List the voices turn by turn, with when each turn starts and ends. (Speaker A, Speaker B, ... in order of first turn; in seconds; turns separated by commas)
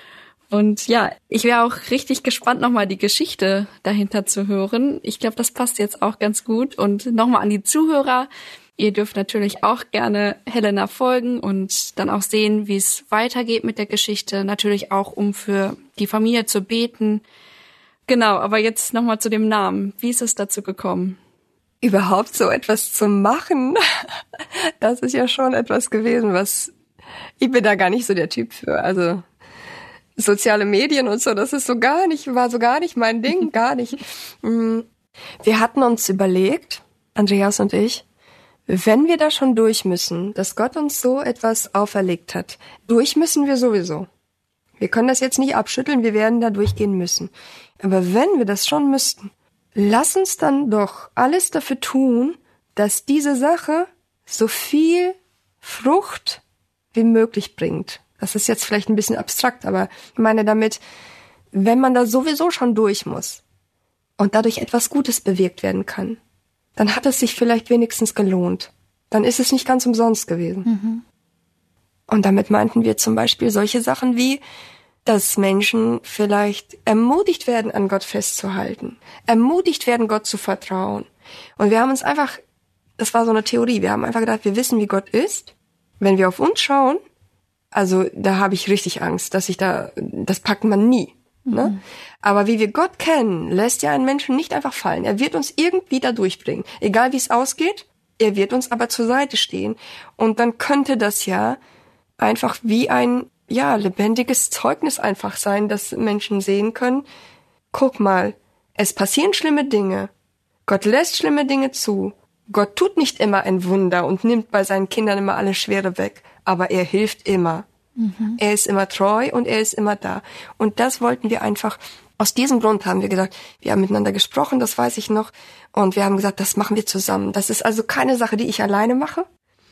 Speaker A: 0.5-17.2, Speaker A: 18.1-21.2, Speaker B: 21.8-23.8, Speaker B: 24.8-26.7, Speaker B: 27.4-29.2, Speaker B: 30.2-34.9, Speaker B: 35.4-38.0, Speaker B: 38.7-44.1, Speaker B: 44.8-56.4, Speaker B: 56.9-60.8, Speaker B: 61.5-63.4, Speaker B: 64.2-66.2, Speaker B: 66.8-70.7, Speaker A: 70.7-71.0, Speaker B: 72.1-74.4, Speaker B: 75.0-81.1, Speaker B: 81.6-82.4, Speaker B: 83.0-87.0, Speaker B: 87.7-101.6, Speaker A: 91.5-91.8, Speaker B: 102.2-107.0, Speaker B: 107.7-110.1, Speaker B: 110.7-117.7, Speaker A: 118.0-118.4, Speaker B: 118.4-129.2